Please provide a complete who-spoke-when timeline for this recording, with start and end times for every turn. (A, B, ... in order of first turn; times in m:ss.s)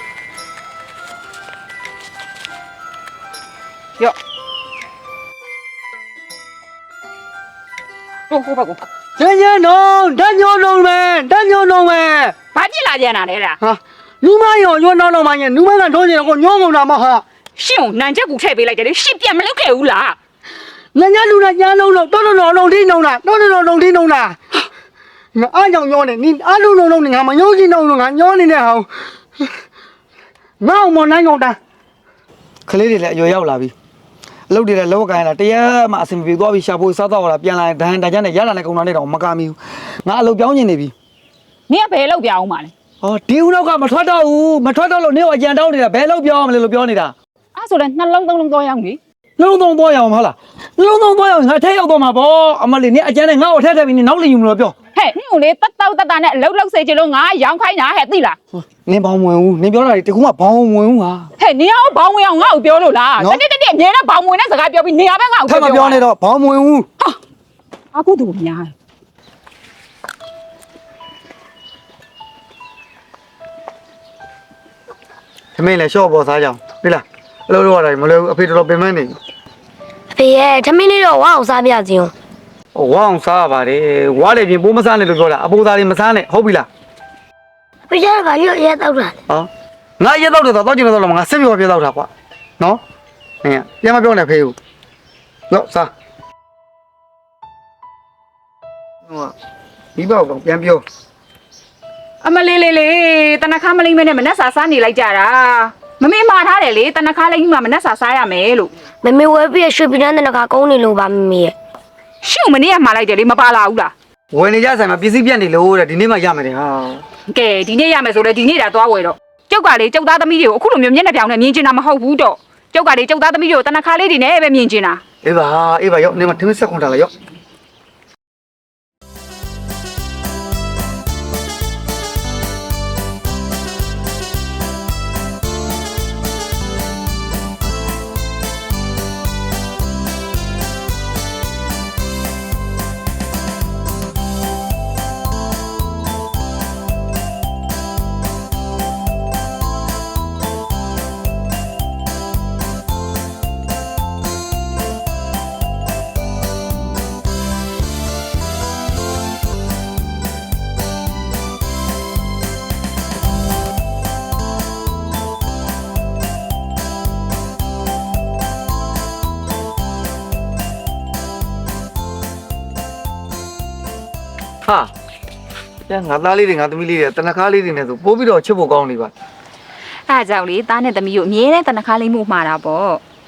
0:08.3-0:08.8 A
0:09.2-0:12.3 B
0:12.6-0:13.6 A
0:13.6-0:17.2 B
0:17.6-0:20.2 A
0:21.0-0:24.4 B
0:25.4-0:28.9 B
0:30.6-0:31.6 B
0:32.7-0:33.7 B
0:34.5-0:40.9 B
0:41.7-0:42.7 A
0:43.0-0:47.1 B
0:47.6-0:49.0 A
0:49.4-0:54.8 B
0:55.0-0:58.4 A
0:58.6-1:01.3 B
1:01.4-1:06.0 A
1:03.2-1:03.4 B
1:05.5-1:06.9 B
1:07.9-1:08.7 A
1:15.6-1:19.2 B
1:20.1-1:22.1 C
1:22.8-1:26.7 B
1:27.9-1:29.2 C
1:30.0-1:32.8 B
1:33.4-1:34.6 B
1:35.5-1:35.9 B
1:40.0-1:40.8 B
1:42.2-1:48.7 A
1:49.0-1:51.5 C
1:52.2-1:53.9 A
1:54.3-1:57.0 B
1:57.3-2:05.0 A
2:05.2-2:07.1 B
2:54.7-2:54.9 B
2:55.9-2:59.1 B
3:00.1-3:03.0 A